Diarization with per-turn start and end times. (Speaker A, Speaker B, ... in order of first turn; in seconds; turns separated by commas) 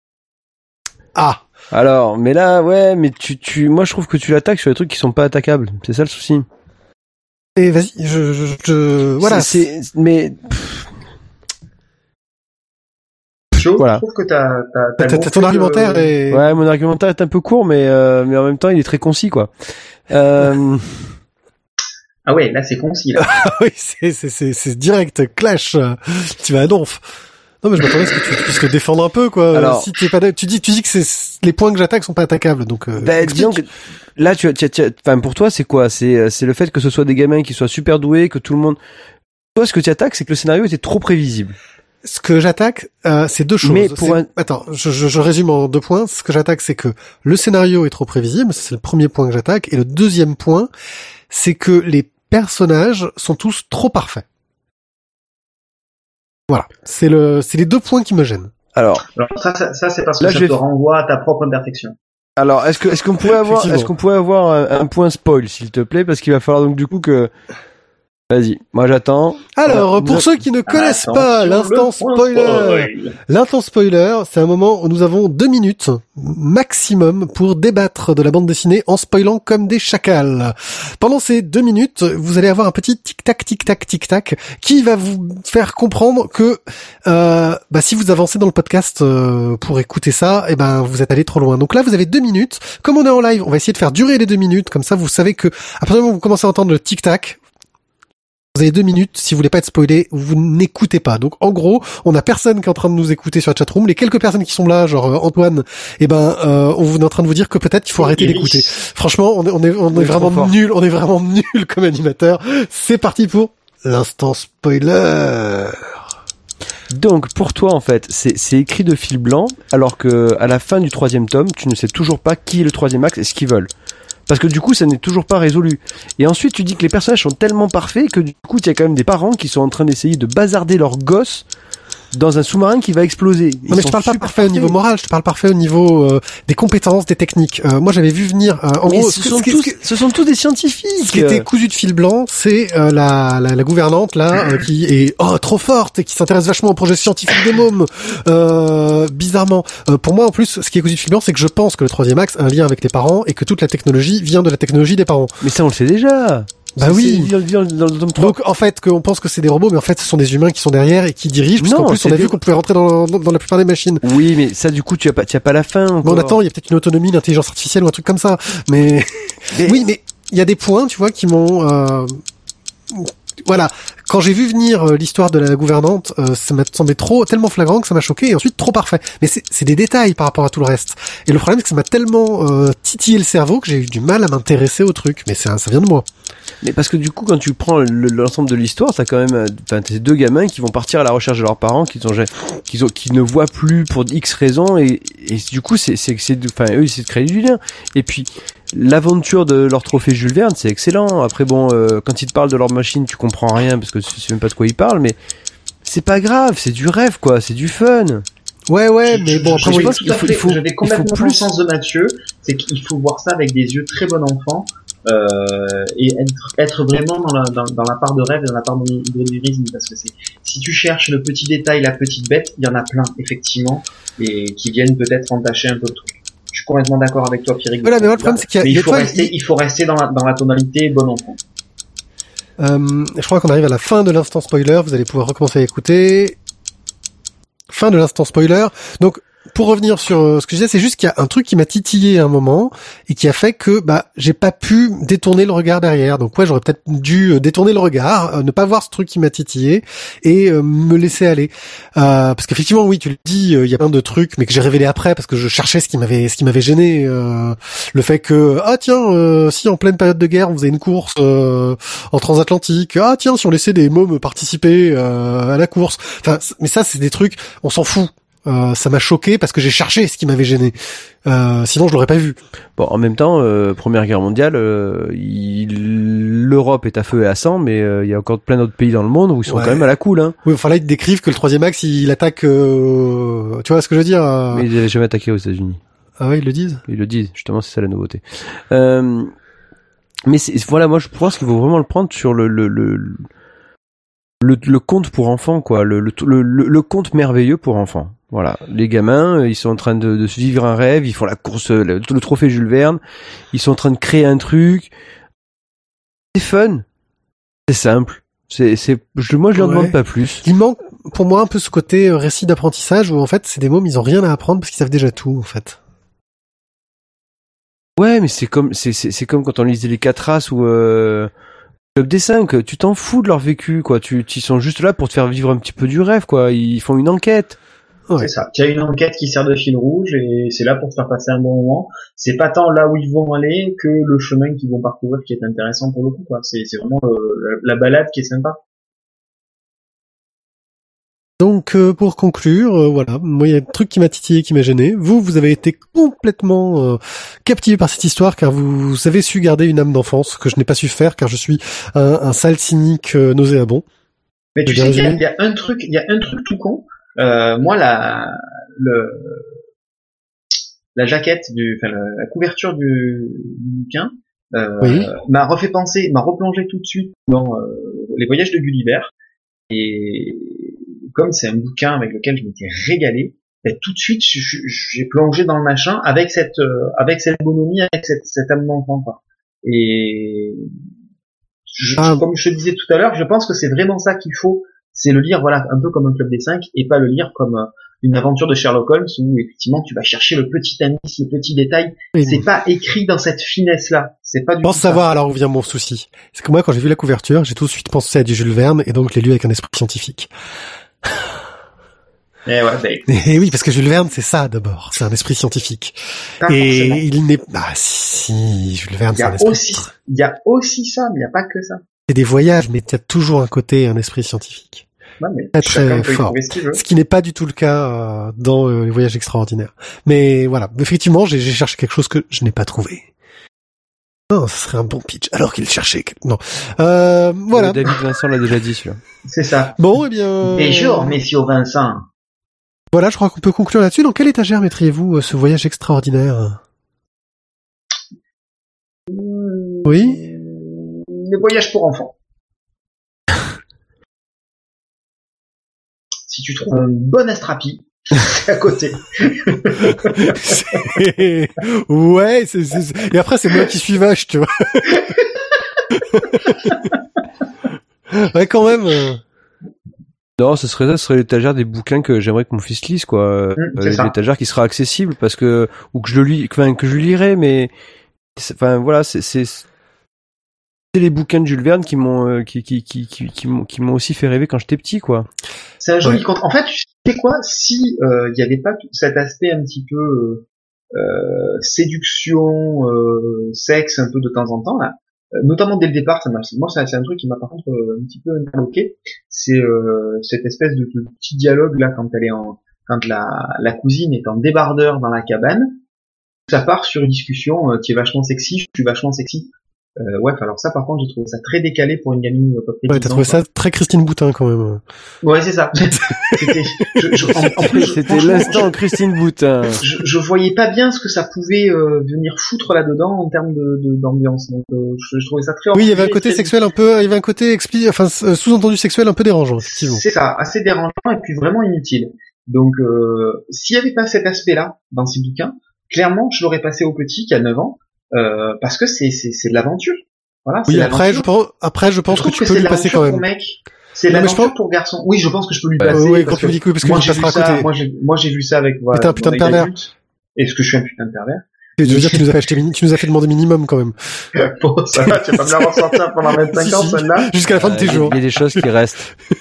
Speaker A: 1.1-1.4, Speaker B: 1.7-6.5, Speaker A: 7.6-9.6, Speaker B: 9.2-10.9, Speaker C: 13.6-16.1, Speaker B: 13.8-14.0, Speaker A: 15.0-16.5, Speaker B: 16.3-19.5, Speaker B: 20.1-21.1, Speaker C: 22.3-23.4, Speaker A: 23.2-27.1, Speaker A: 27.6-33.6, Speaker B: 29.5-29.9, Speaker B: 33.0-38.8, Speaker B: 39.5-41.6, Speaker A: 42.0-50.7, Speaker B: 43.6-44.3, Speaker A: 51.3-54.2, Speaker A: 56.5-58.5, Speaker B: 58.8-59.0, Speaker C: 59.1-62.0, Speaker B: 60.2-60.6, Speaker B: 62.4-67.3, Speaker A: 63.3-63.9, Speaker B: 68.3-70.3, Speaker A: 69.6-97.4, Speaker C: 70.7-73.2, Speaker A: 98.5-115.9, Speaker C: 108.0-108.7, Speaker B: 109.9-110.5, Speaker B: 116.9-123.7, Speaker B: 124.3-131.5, Speaker B: 132.1-134.8, Speaker A: 133.7-139.8, Speaker B: 138.9-141.5, Speaker A: 141.0-155.4, Speaker B: 155.4-158.4, Speaker A: 156.8-157.3, Speaker A: 158.2-164.0, Speaker B: 161.6-162.4, Speaker B: 164.0-166.4, Speaker A: 166.0-172.2, Speaker B: 169.5-169.9, Speaker A: 172.9-186.1, Speaker B: 186.6-205.2, Speaker B: 205.8-208.3, Speaker A: 208.7-210.0, Speaker C: 209.1-231.4, Speaker B: 209.6-211.4, Speaker A: 227.8-229.3, Speaker A: 232.6-236.4, Speaker A: 237.7-272.4, Speaker B: 272.8-280.4, Speaker A: 279.5-279.9, Speaker A: 280.4-284.7, Speaker B: 284.5-285.8, Speaker A: 286.2-286.8, Speaker B: 286.9-289.3, Speaker B: 290.3-293.2, Speaker B: 294.4-303.0, Speaker B: 303.5-304.9, Speaker B: 306.3-306.9, Speaker B: 307.7-310.4, Speaker A: 309.6-315.8, Speaker B: 318.0-321.3, Speaker B: 321.9-327.6, Speaker C: 328.2-338.6, Speaker A: 341.4-353.9, Speaker C: 354.6-359.5, Speaker A: 354.7-355.2, Speaker C: 360.9-369.1, Speaker A: 364.8-365.1, Speaker C: 369.7-380.7, Speaker C: 381.7-395.1, Speaker A: 382.0-382.2, Speaker A: 392.1-392.5, Speaker A: 394.6-400.3, Speaker C: 402.5-403.5, Speaker A: 403.1-409.9, Speaker C: 406.4-407.0, Speaker C: 409.2-411.8, Speaker A: 412.1-414.9, Speaker C: 415.2-416.8, Speaker A: 415.6-423.1, Speaker A: 424.3-428.0, Speaker B: 427.5-429.0, Speaker C: 429.2-429.8, Speaker A: 429.8-431.2, Speaker C: 430.4-432.1, Speaker A: 432.9-436.6, Speaker C: 439.1-442.1, Speaker A: 439.9-440.2, Speaker C: 446.3-450.9, Speaker A: 450.2-455.1, Speaker A: 456.0-456.8, Speaker A: 458.1-459.2, Speaker B: 460.4-467.7, Speaker C: 463.6-464.1, Speaker B: 468.4-469.6, Speaker B: 470.9-475.3, Speaker C: 475.8-495.7, Speaker C: 496.5-503.4, Speaker A: 502.9-504.8, Speaker C: 505.2-508.7, Speaker A: 506.1-506.6, Speaker A: 507.2-508.8, Speaker B: 507.4-509.8, Speaker C: 509.8-516.7, Speaker A: 515.7-520.0, Speaker C: 519.6-531.3, Speaker A: 530.7-533.2, Speaker C: 532.1-542.3, Speaker A: 534.1-534.5, Speaker A: 535.9-537.7, Speaker A: 538.9-539.7, Speaker A: 541.8-544.2, Speaker C: 544.4-547.3, Speaker A: 544.9-548.6, Speaker B: 547.5-549.1